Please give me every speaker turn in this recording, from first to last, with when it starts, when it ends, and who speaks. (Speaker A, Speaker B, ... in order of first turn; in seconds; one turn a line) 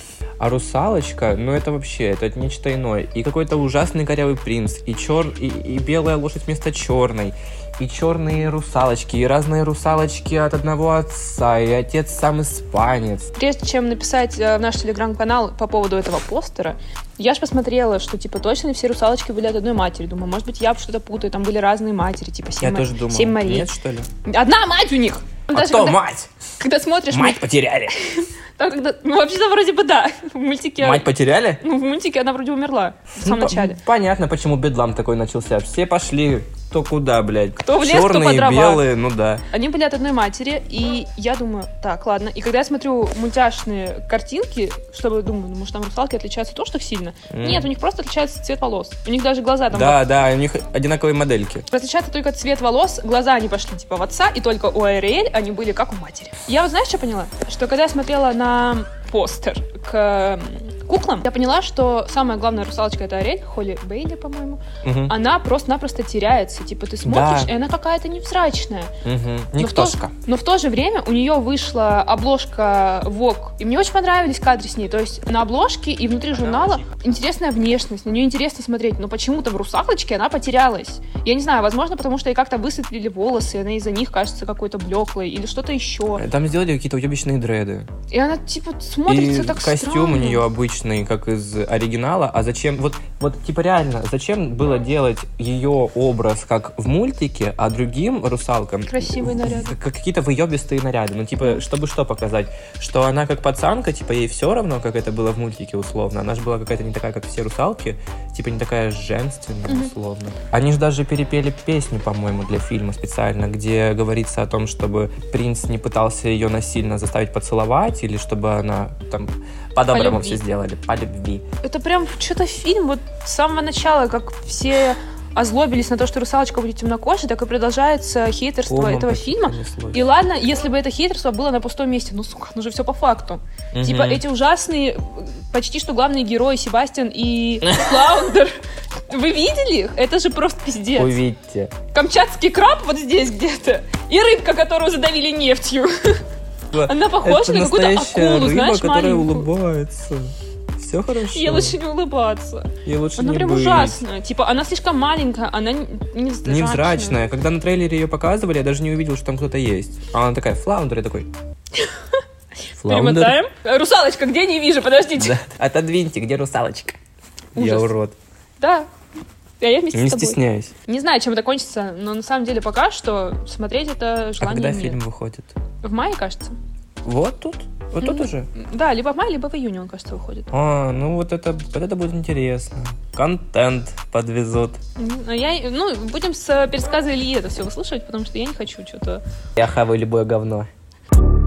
Speaker A: 0.4-13.3
Speaker B: 13.3-23.7
Speaker A: 22.6-24.1
Speaker B: 24.2-26.0
Speaker A: 25.5-26.3
Speaker B: 26.6-31.1
Speaker A: 27.1-28.0
Speaker A: 30.8-31.6
Speaker B: 31.6-33.8
Speaker A: 33.1-39.4
Speaker B: 37.6-38.9
Speaker B: 39.5-50.0
Speaker A: 47.3-47.7
Speaker A: 49.7-51.7
Speaker B: 51.7-68.9
Speaker A: 64.8-65.2
Speaker A: 67.0-67.5
Speaker A: 69.0-70.1
Speaker B: 69.6-86.2
Speaker A: 76.5-76.8
Speaker A: 86.2-87.9
Speaker B: 88.1-90.4
Speaker A: 89.1-121.5
Speaker B: 98.9-99.8
Speaker B: 109.7-109.9
Speaker B: 119.9-120.4
Speaker B: 121.6-141.2
Speaker A: 128.7-130.0
Speaker A: 133.7-134.2
Speaker A: 137.6-138.2
Speaker A: 140.9-141.7
Speaker B: 141.9-146.2
Speaker A: 146.7-151.8
Speaker B: 146.8-149.5
Speaker B: 151.3-157.2
Speaker A: 152.8-154.0
Speaker A: 156.4-161.3
Speaker B: 161.7-162.2
Speaker A: 162.8-163.4
Speaker B: 162.8-165.4
Speaker A: 165.2-167.0
Speaker A: 167.5-168.1
Speaker B: 167.6-167.9
Speaker B: 168.6-168.9
Speaker B: 169.6-175.0
Speaker A: 169.9-170.7
Speaker A: 174.4-175.5
Speaker B: 175.8-176.6
Speaker A: 177.0-178.5
Speaker B: 178.0-180.5
Speaker A: 180.5-184.8
Speaker B: 185.0-189.2
Speaker A: 189.6-190.7